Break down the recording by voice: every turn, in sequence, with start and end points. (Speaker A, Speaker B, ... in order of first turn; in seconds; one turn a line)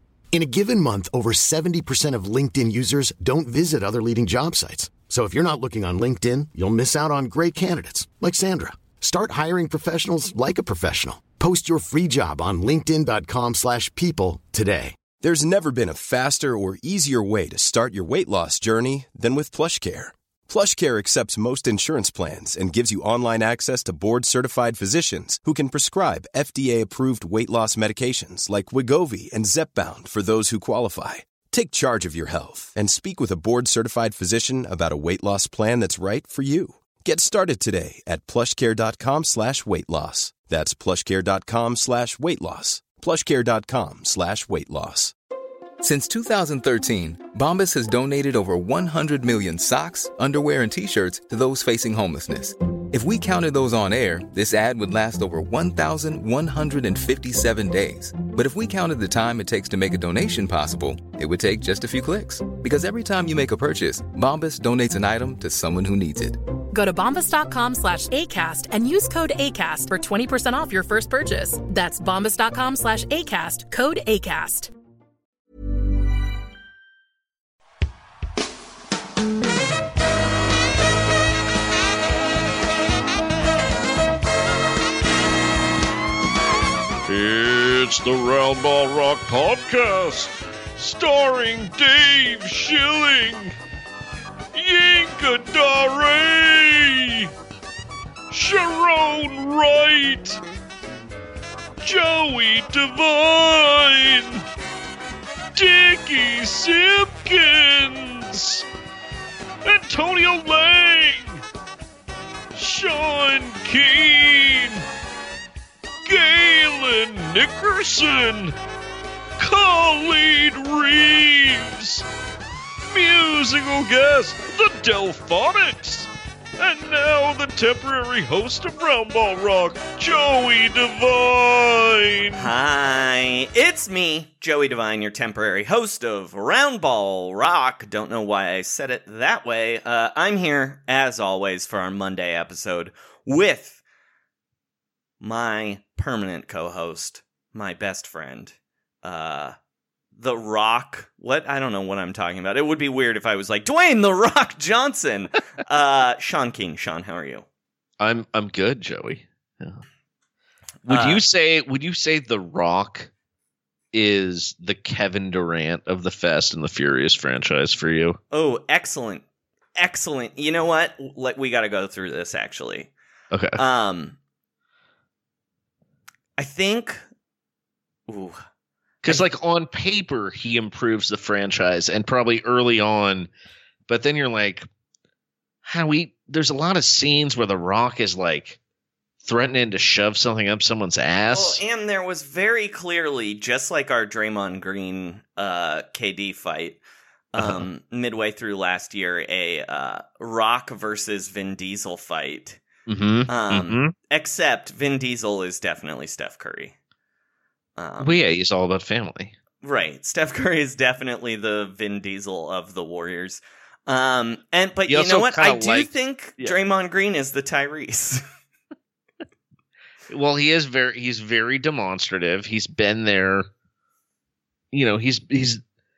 Speaker A: 0.3-15.0
Speaker B: 15.2-45.1
Speaker C: 45.8-66.4
Speaker D: 66.7-74.7
Speaker E: 87.1-93.5
Speaker E: 94.5-97.3
Speaker E: 98.3-100.4
Speaker E: 101.8-104.4
Speaker E: 105.5-108.6
Speaker E: 109.6-111.4
Speaker E: 112.5-114.8
Speaker E: 116.0-118.5
Speaker E: 119.4-122.0
Speaker E: 122.9-132.5
Speaker F: 132.3-143.8
Speaker F: 145.2-149.5
Speaker F: 150.1-157.4
Speaker E: 158.0-159.8
Speaker F: 160.8-161.2
Speaker E: 160.9-163.1
Speaker E: 163.9-168.2
Speaker F: 168.3-169.2
Speaker F: 169.8-172.9
Speaker E: 173.3-173.6
Speaker F: 173.6-174.2
Speaker F: 176.4-177.0
Speaker F: 178.1-178.4
Speaker E: 179.0-183.3
Speaker F: 179.0-179.3
Speaker E: 183.9-184.7
Speaker E: 185.6-188.6
Speaker E: 189.2-191.6
Speaker F: 191.3-196.8
Speaker F: 197.3-202.6
Speaker E: 197.4-197.7
Speaker E: 202.9-203.9
Speaker F: 203.3-206.7
Speaker F: 207.8-208.2
Speaker E: 208.0-209.3
Speaker F: 209.6-218.2
Speaker E: 214.9-216.6
Speaker E: 220.1-223.5
Speaker E: 224.7-225.6